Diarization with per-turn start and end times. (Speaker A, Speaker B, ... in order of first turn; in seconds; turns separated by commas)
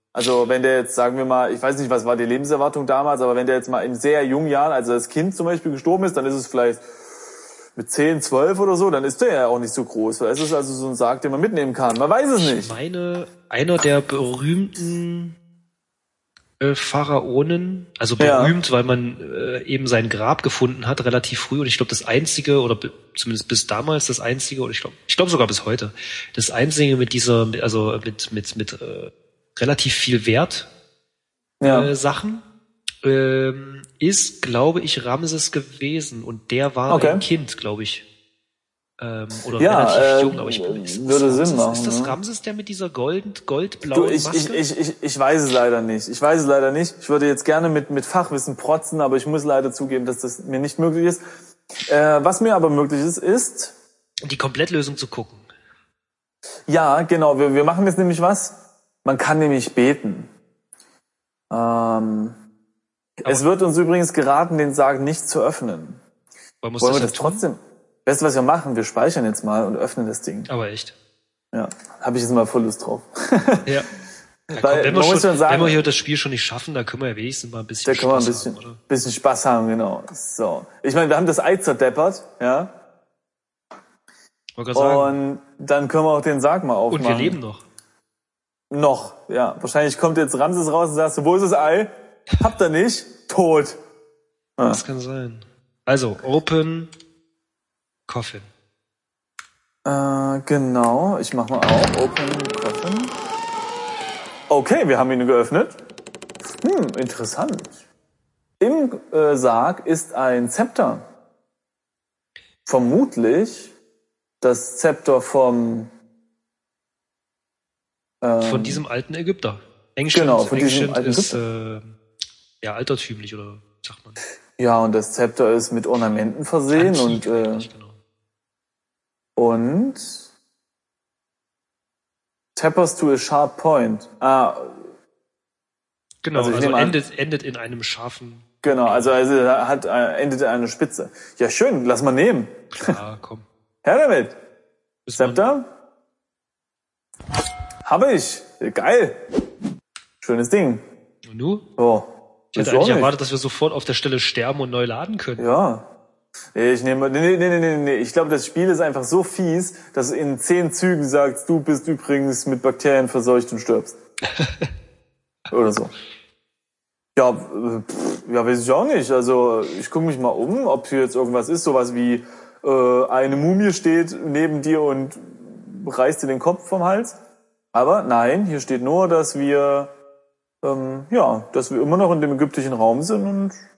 Speaker A: 0.1-6.8, Speaker A: 7.7-12.7, Speaker B: 12.4-15.4, Speaker B: 16.6-30.7, Speaker A: 18.2-18.6, Speaker A: 31.6-31.9, Speaker B: 31.6-32.4, Speaker B: 33.0-38.1, Speaker A: 36.9-37.2, Speaker B: 39.0-44.6, Speaker A: 39.6-42.1, Speaker A: 43.9-51.2, Speaker A: 51.9-53.7, Speaker B: 54.2-55.5, Speaker A: 56.7-60.3, Speaker A: 61.5-62.4, Speaker A: 63.2-66.0, Speaker B: 66.6-67.4, Speaker A: 66.8-70.5, Speaker B: 70.5-70.9, Speaker A: 71.5-73.7, Speaker A: 74.5-75.8, Speaker B: 74.5-78.8, Speaker A: 77.8-82.7, Speaker B: 84.6-85.2, Speaker A: 84.7-87.4, Speaker B: 86.9-87.6, Speaker A: 88.7-93.8, Speaker B: 94.7-96.9, Speaker B: 98.1-98.5, Speaker A: 99.8-103.1, Speaker A: 104.5-105.8, Speaker A: 106.6-107.8, Speaker A: 108.6-111.0, Speaker A: 112.6-113.7, Speaker A: 114.4-115.9, Speaker A: 118.2-118.8, Speaker B: 118.4-121.9, Speaker A: 120.1-121.4, Speaker B: 122.6-124.2, Speaker A: 124.6-127.7, Speaker B: 126.7-128.0, Speaker A: 129.4-130.3, Speaker A: 132.6-134.9, Speaker B: 136.2-139.2, Speaker A: 136.3-137.0, Speaker A: 138.6-143.0, Speaker B: 142.7-143.4, Speaker A: 143.8-144.3, Speaker B: 145.1-145.5, Speaker A: 145.1-145.7, Speaker A: 147.8-149.2, Speaker A: 150.2-150.8, Speaker B: 151.2-151.6, Speaker A: 151.8-153.1, Speaker B: 152.5-155.5, Speaker A: 155.4-155.9, Speaker A: 156.6-163.9, Speaker B: 164.3-164.7, Speaker A: 165.5-165.9, Speaker A: 167.2-177.2, Speaker A: 177.7-179.9, Speaker A: 180.6-183.6